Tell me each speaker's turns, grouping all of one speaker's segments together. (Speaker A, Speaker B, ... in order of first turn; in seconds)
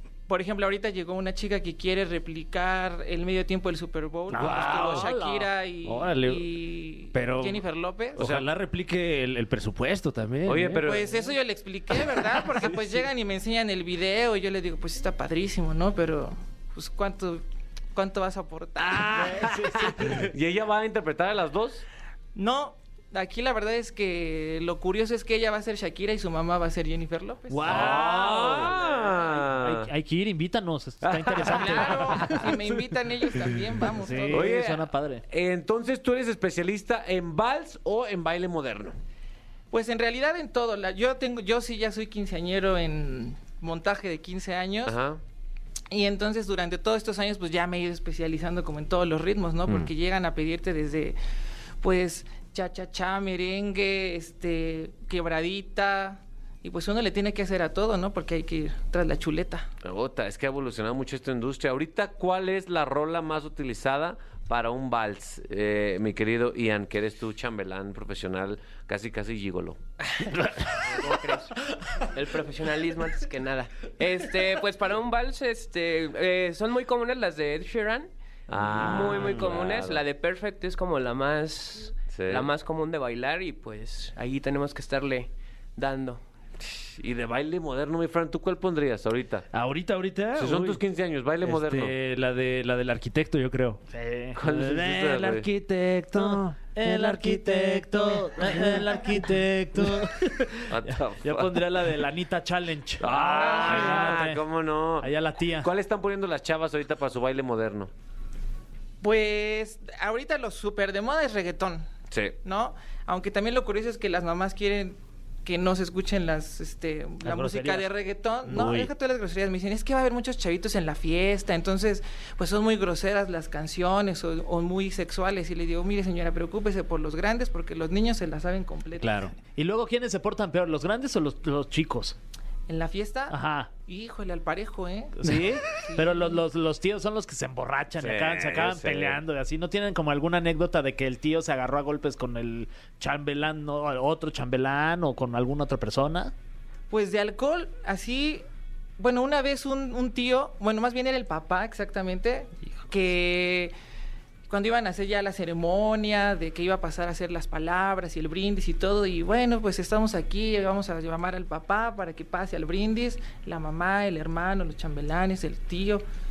Speaker A: 0.3-8.3, 10.8-19.3, 22.4-28.1, 31.4-34.6, 39.7-45.0, 45.9-51.2, 51.8-59.7, 103.2-104.2, 109.0-111.9, 112.4-129.3, 132.7-136.4, 146.9-148.4, 149.0-153.7, 154.5-166.1
Speaker B: 4.3-5.2, 5.8-6.4, 7.1-7.6, 8.2-10.9, 78.8-79.2, 89.5-90.8, 91.4-93.8, 94.4-100.3, 103.4-104.1, 129.0-129.3
Speaker C: 4.6-5.4, 19.1-20.3, 27.5-32.8, 34.0-35.2, 93.9-94.4, 96.2-104.4, 105.0-105.7, 117.2-117.9, 118.5-118.9, 129.6-132.2, 133.3-133.7, 135.2-146.3
Speaker D: 4.8-5.0, 8.2-8.4, 10.5-11.1, 18.8-21.8, 27.7-29.9, 31.0-31.8, 34.3-39.0, 44.9-45.2, 59.8-69.8, 78.5-80.0, 82.1-82.5, 86.6-89.5, 90.4-91.9, 94.4-95.5, 100.7-101.6, 103.0-107.9, 112.1-112.4, 138.0-139.2
Speaker E: 70.0-71.6, 72.1-78.1, 78.6-86.2